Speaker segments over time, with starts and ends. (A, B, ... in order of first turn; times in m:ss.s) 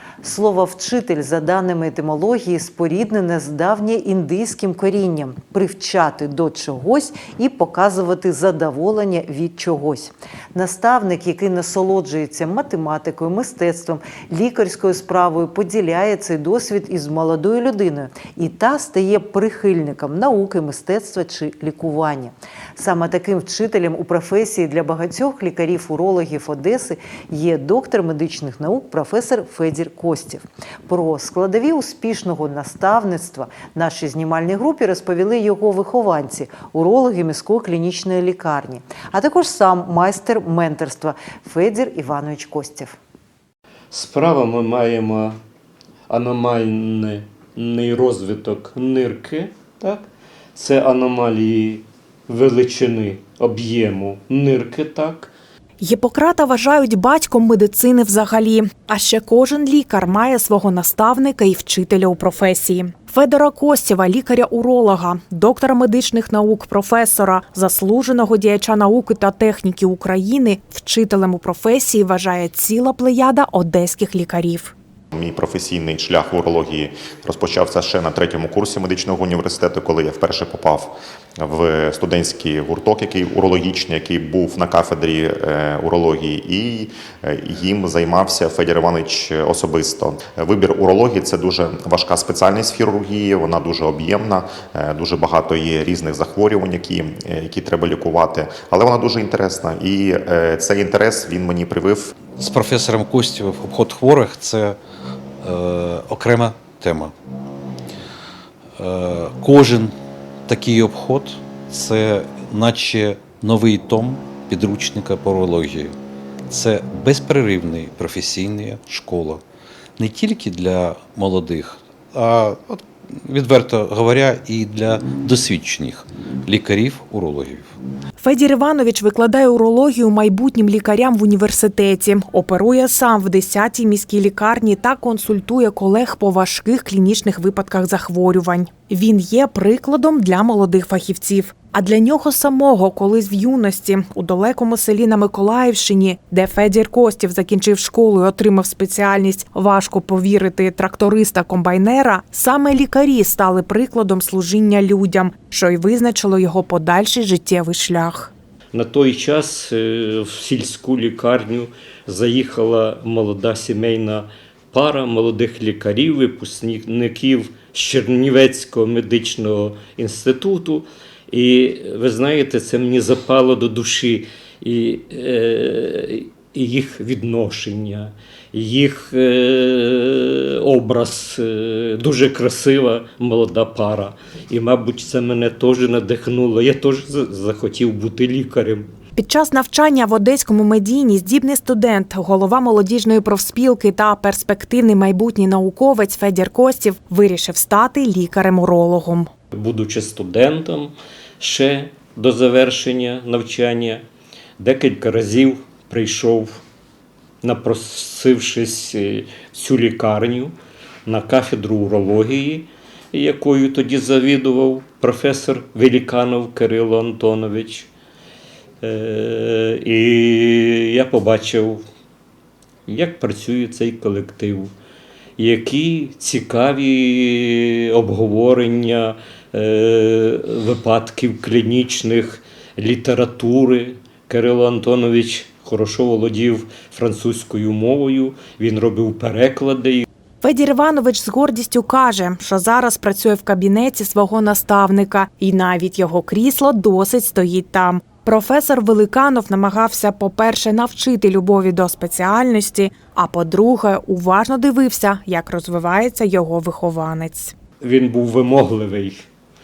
0:00.2-0:43.0 A
0:43.9-0:45.4 B
0:46.1-0:55.3 B
0:55.8-1:14.7 C
1:15.1-1:42.1 D
1:42.4-1:44.8 E
1:45.4-1:47.1 E
1:48.8-1:49.9 E
1:50.5-1:56.0 E
1:56.5-1:59.4 E
2:00.0-2:07.7 E
2:08.2-2:38.3 C
2:38.7-3:08.9 B
3:09.2-3:19.3 C
3:19.5-3:24.0 B
3:24.6-3:26.6 B
3:27.4-3:30.5 B
3:31.1-3:37.9 B
3:38.8-3:41.8 B
3:42.9-3:44.7 B
3:45.4-4:00.1 B
4:00.4-4:17.5 C
4:17.8-4:19.2 B